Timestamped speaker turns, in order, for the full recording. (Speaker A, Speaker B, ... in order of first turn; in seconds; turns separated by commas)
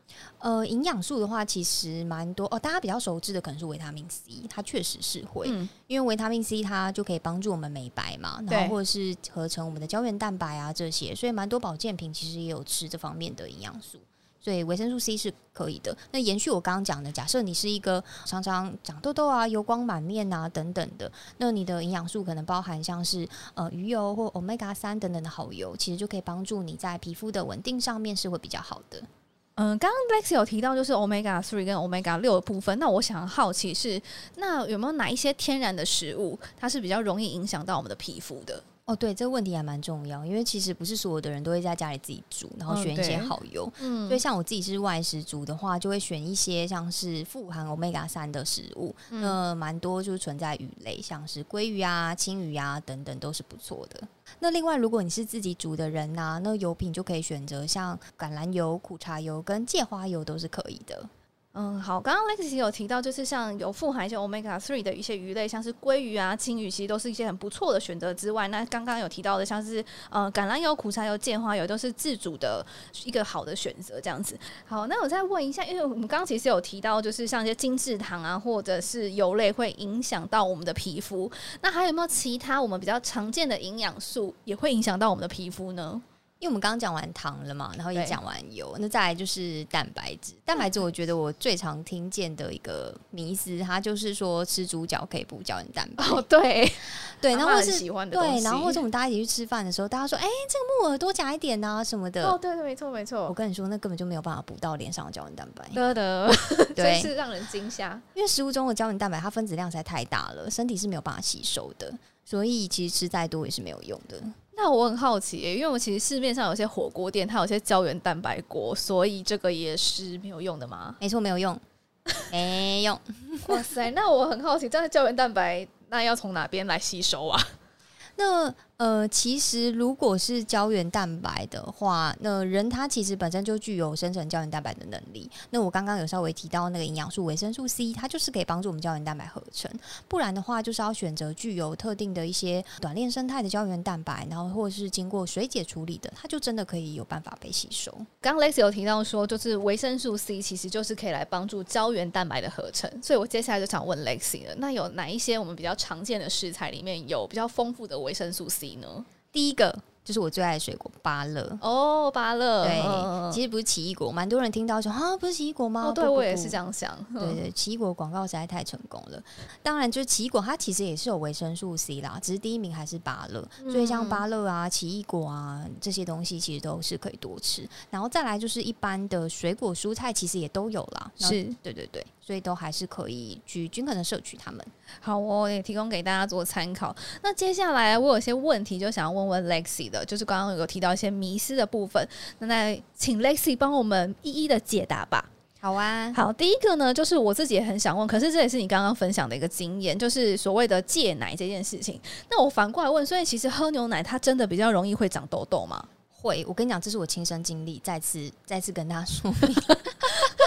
Speaker A: 0.4-29.1, Speaker B: 5.4-5.7, Speaker B: 8.5-8.8, Speaker B: 29.6-38.6, Speaker A: 38.9-61.1, Speaker B: 42.7-44.2, Speaker B: 49.1-49.4, Speaker B: 61.5-86.0, Speaker A: 86.4-96.2, Speaker B: 96.0-98.8, Speaker A: 97.2-102.4, Speaker B: 102.2-103.3, Speaker A: 103.3-105.8, Speaker B: 105.7-108.0, Speaker A: 106.8-107.1, Speaker A: 108.1-114.4, Speaker B: 114.5-121.0, Speaker A: 121.0-121.6, Speaker A: 122.3-123.6, Speaker B: 123.5-127.5, Speaker A: 128.2-148.1, Speaker B: 148.2-159.1, Speaker A: 159.3-161.6, Speaker B: 161.6-163.4, Speaker A: 162.6-166.6, Speaker B: 165.8-167.4, Speaker A: 167.2-184.7, Speaker B: 173.6-174.2, Speaker B: 181.2-181.6, Speaker B: 185.0-195.3, Speaker A: 195.6-196.2, Speaker B: 196.1-205.9, Speaker A: 206.1-209.9